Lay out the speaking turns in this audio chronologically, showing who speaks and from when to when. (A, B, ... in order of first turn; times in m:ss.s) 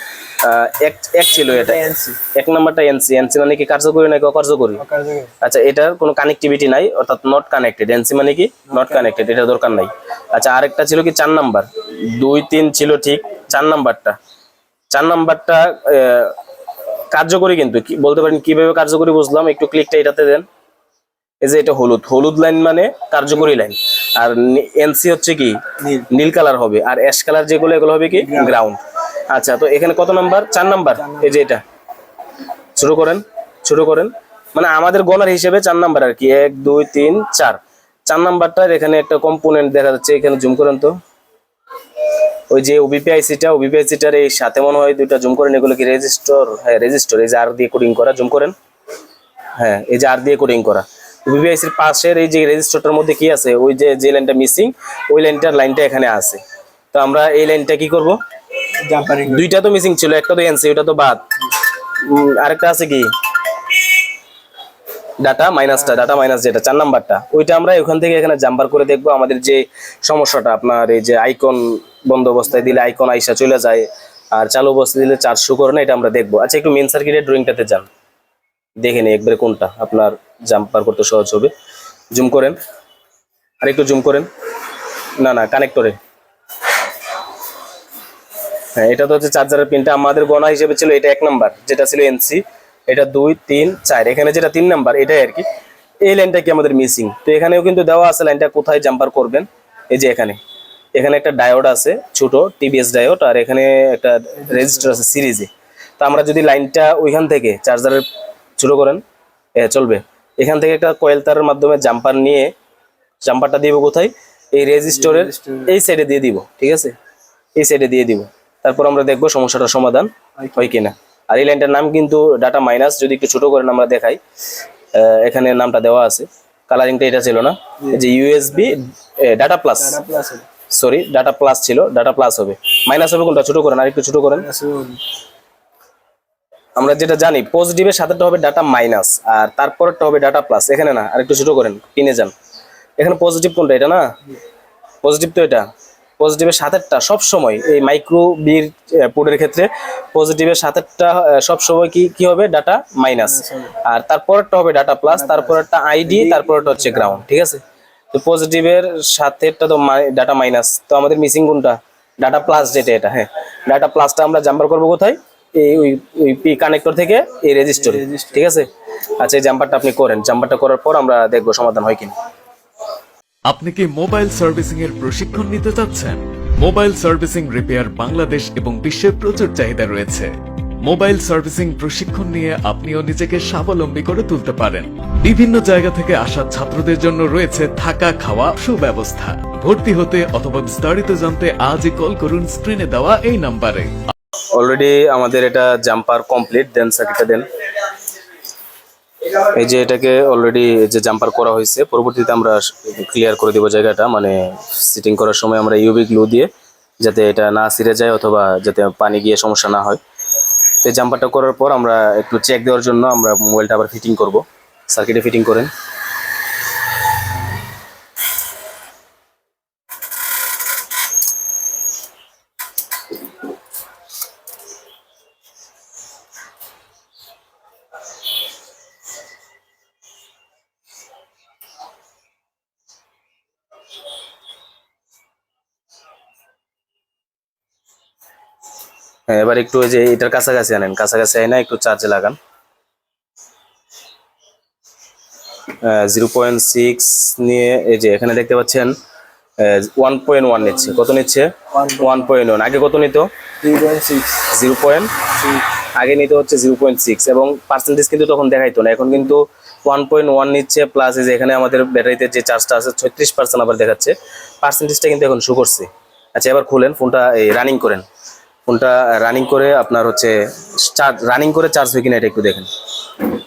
0:00.4-0:04.8 A
0:01.4-0:02.2 B
0:04.8-0:05.3 B
0:05.4-0:14.2 A
0:08.7-0:09.1 B
0:14.9-0:16.4 A
0:17.1-0:20.5 A
0:21.4-0:28.8 A
0:25.8-0:26.1 B
0:28.2-0:28.6 B
0:29.3-0:31.6 A
0:31.0-0:31.4 B
0:32.8-0:41.0 A
0:42.5-0:48.6 A
0:49.6-0:56.4 A
0:56.9-0:58.2 A
0:58.8-0:59.5 B
0:59.3-1:01.2 A
1:02.0-1:03.1 A
1:05.2-1:17.9 A
1:18.8-1:21.5 A
1:22.1-1:22.6 A
1:23.6-1:24.3 A
1:25.2-1:26.0 A
1:28.8-1:35.4 A
1:36.0-1:40.4 A
1:41.0-1:48.0 A
1:48.6-1:49.0 A
1:49.6-1:52.5 A
1:53.2-1:57.0 A
1:55.0-1:55.7 B
1:57.6-2:04.2 A
2:00.4-2:00.7 B
2:04.9-2:10.0 A
2:09.8-2:10.5 B
2:10.7-2:14.5 A
2:14.4-2:15.0 B
2:16.8-2:22.3 A
2:23.0-2:24.1 A
2:25.0-2:25.7 A
2:26.2-2:37.6 A
2:33.2-2:33.7 B
2:35.1-2:37.2 B
2:38.1-2:52.2 A
2:47.7-2:48.4 B
2:53.5-3:14.1 C
3:14.5-3:17.5 A
3:19.3-3:26.5 A
3:27.0-3:30.0 A
3:30.8-3:35.7 A
3:59.3-4:02.4 A
4:05.8-4:09.0 A
4:09.6-4:13.3 A
4:10.7-4:11.0 B
4:11.7-4:12.3 B
4:13.6-4:14.5 B
4:14.5-4:15.1 A
4:15.4-4:15.6 B
4:16.0-4:28.0 A
4:28.7-4:32.7 A